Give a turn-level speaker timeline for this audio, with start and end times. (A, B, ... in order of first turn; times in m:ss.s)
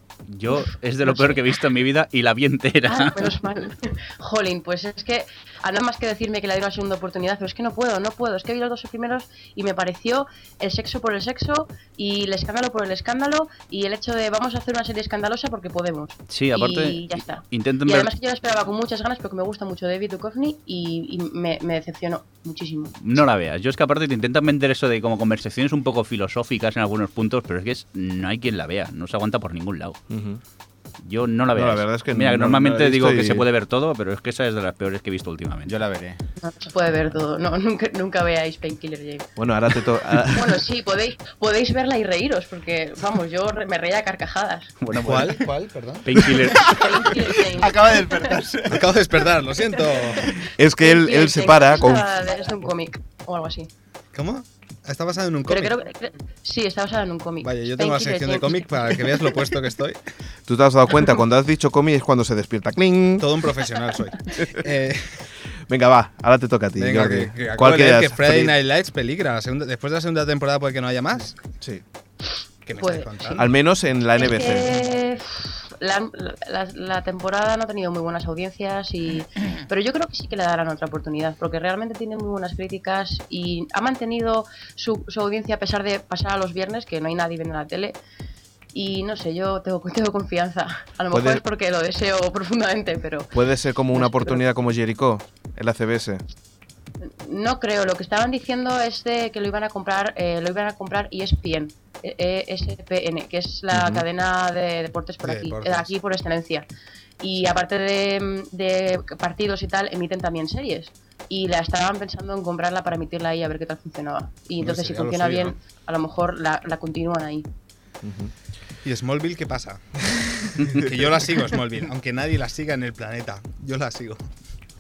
0:00.3-0:03.3 A
0:01.0-0:01.3 B
0:02.9-0:23.2 B
0:16.3-0:18.1 A
0:23.0-0:30.0 A
0:30.1-0:30.4 C
0:31.0-0:35.7 A
0:31.5-0:33.5 C
0:35.6-0:36.2 D
0:36.4-0:39.3 B
0:39.4-0:40.6 C
0:40.2-0:44.7 B
0:44.8-0:45.5 A
0:44.9-0:46.7 E
0:46.0-0:47.0 A
0:46.5-0:48.4 B
0:46.7-0:48.9 D
0:48.7-0:50.3 E
0:49.7-0:53.7 B
0:50.5-0:52.1 C
0:54.1-0:55.8 E
0:55.4-0:59.3 B
0:57.4-1:00.0 E
1:00.5-1:03.3 C
1:03.2-1:05.2 E
1:04.4-1:04.6 C
1:05.7-1:08.5 C
1:06.8-1:11.4 E
1:12.6-1:13.5 E
1:12.8-1:13.5 B
1:13.4-1:14.8 C
1:14.2-1:28.0 B
1:28.7-1:33.3 B
1:31.1-1:31.4 C
1:33.3-1:36.2 C
1:33.9-1:34.4 B
1:37.0-1:46.6 B
1:43.7-1:44.0 C
1:45.2-1:45.9 E
1:47.2-1:57.5 B
1:54.6-1:55.5 E
1:58.0-1:58.3 C
1:58.8-2:04.3 E